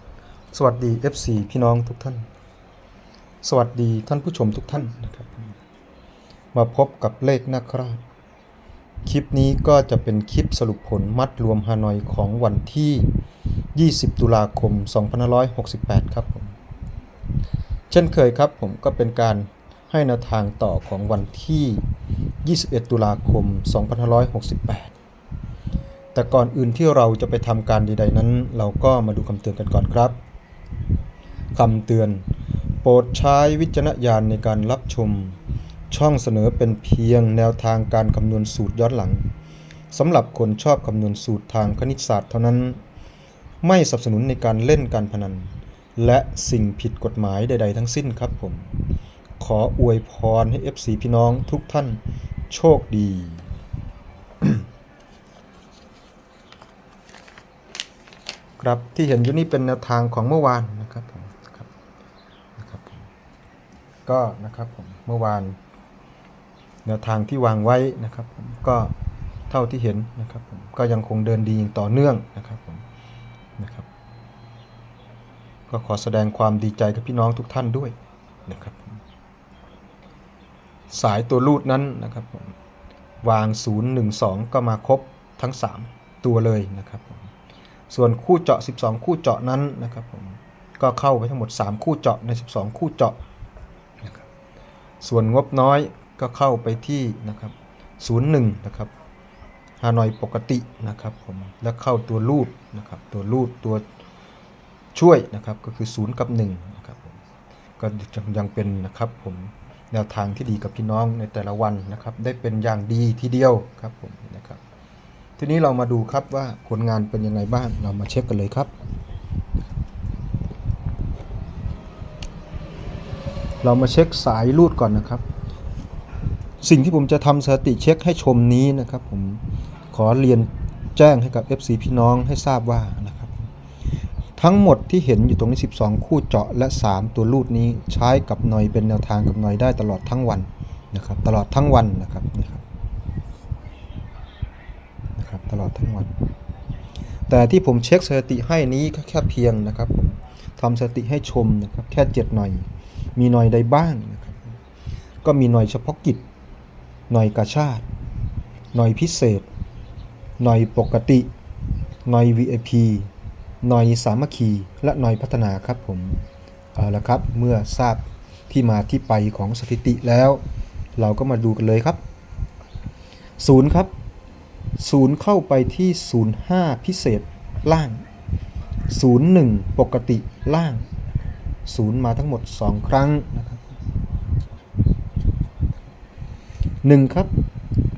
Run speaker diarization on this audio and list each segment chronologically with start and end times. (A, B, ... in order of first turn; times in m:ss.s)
0:00.5-0:02.3 A
0:03.4-0:05.6 A
0:06.5-0:08.0 A
0:09.0-0:13.1 A
0:13.7-0:16.6 A
0:17.9-0:21.9 A
0:22.4-0:25.0 A
0:26.1-0:30.2 A
0:31.6-0:32.2 A
0:32.8-0:35.4 A
0:35.9-0:39.3 A
0:39.9-0:42.8 A
0:43.6-0:48.7 A
0:49.4-0:53.5 A
0:58.6-1:01.7 A
1:02.6-1:03.0 A
1:04.0-1:05.6 A
1:06.8-1:08.9 A
1:09.5-1:12.8 A
1:13.6-1:13.9 A
1:15.7-1:19.0 A
1:20.9-1:22.5 A
1:23.2-1:27.3 A
1:27.9-1:33.2 A
1:35.0-1:38.9 A
1:39.8-1:43.8 A
1:44.9-1:47.2 A
1:47.8-1:54.6 A
1:55.4-1:58.7 A
2:03.6-2:05.2 A
2:06.6-2:13.5 A
2:14.4-2:22.6 A
2:25.2-2:26.1 A
2:27.3-2:34.6 A
2:35.2-2:36.2 A
2:37.1-2:37.9 A
2:38.7-2:39.5 A
2:40.4-2:41.3 A
2:42.0-2:43.1 A
2:43.6-2:50.4 A
2:51.0-2:52.0 A
2:53.4-2:53.9 A
2:54.8-2:58.1 A
2:58.9-3:03.8 A
3:06.8-3:07.3 A